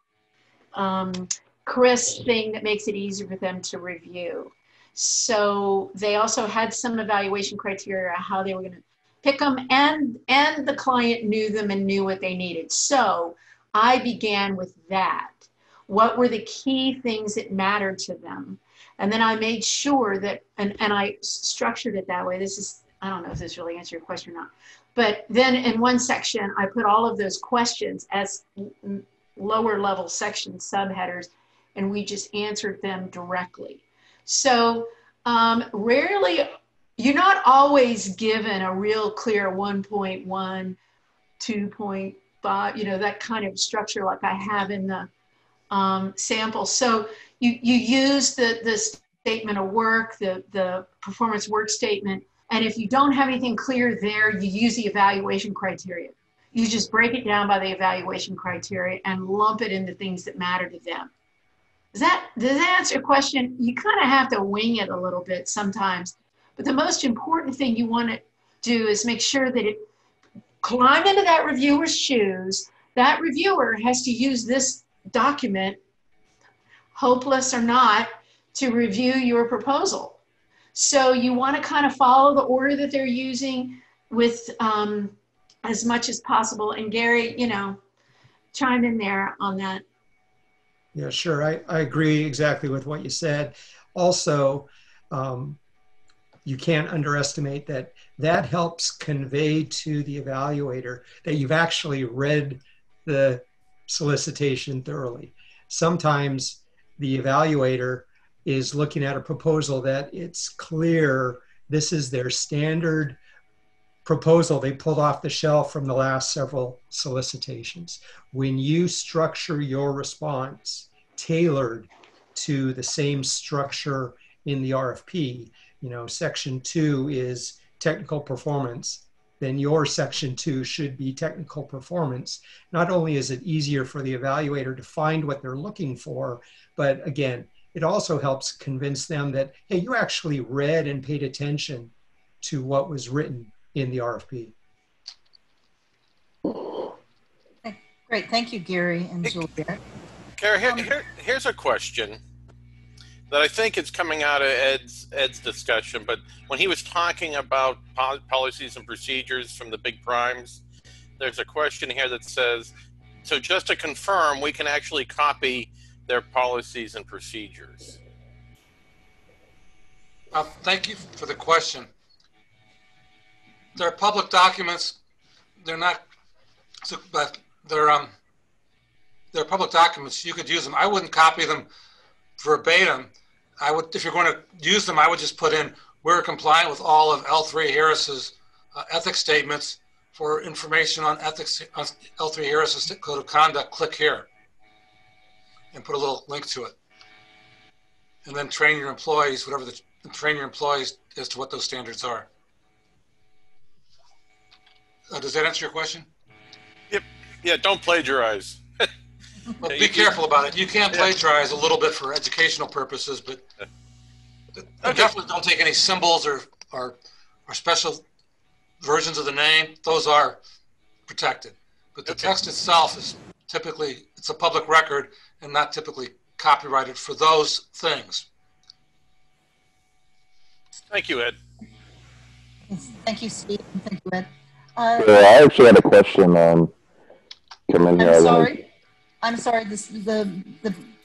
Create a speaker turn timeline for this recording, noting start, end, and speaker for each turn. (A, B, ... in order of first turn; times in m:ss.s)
0:00.7-0:40.8 A
0:41.4-0:45.1 A
0:45.7-1:01.1 A
1:01.9-1:09.8 A
1:10.6-1:15.8 A
1:16.9-1:20.2 A
1:20.7-1:27.8 A
1:28.5-1:29.8 A
1:30.9-1:35.6 B
1:36.4-1:53.2 B
1:54.0-2:24.5 B
2:27.6-2:29.8 C
2:30.4-2:32.2 D
2:33.3-2:40.6 D
2:41.2-2:42.7 D
2:43.2-2:48.0 D
2:50.3-2:51.9 E
2:53.8-2:55.0 E
2:55.6-2:56.0 E
2:56.8-2:58.1 E
2:59.3-3:01.7 E
3:02.4-3:14.3 E
3:15.7-3:16.7 E
3:18.2-3:22.3 E
3:25.1-3:26.1 E
3:26.9-3:28.9 D
3:29.6-3:30.2 D
3:29.6-3:33.4 E
3:34.6-3:38.0 E
3:34.8-3:35.2 D
3:38.8-3:40.4 E
3:41.1-3:48.2 E
3:42.1-3:42.3 D
3:50.9-3:51.4 D
3:52.7-3:55.1 C
3:55.0-3:56.7 F
3:57.7-3:58.6 F
3:57.9-3:58.6 C
3:59.2-4:00.9 C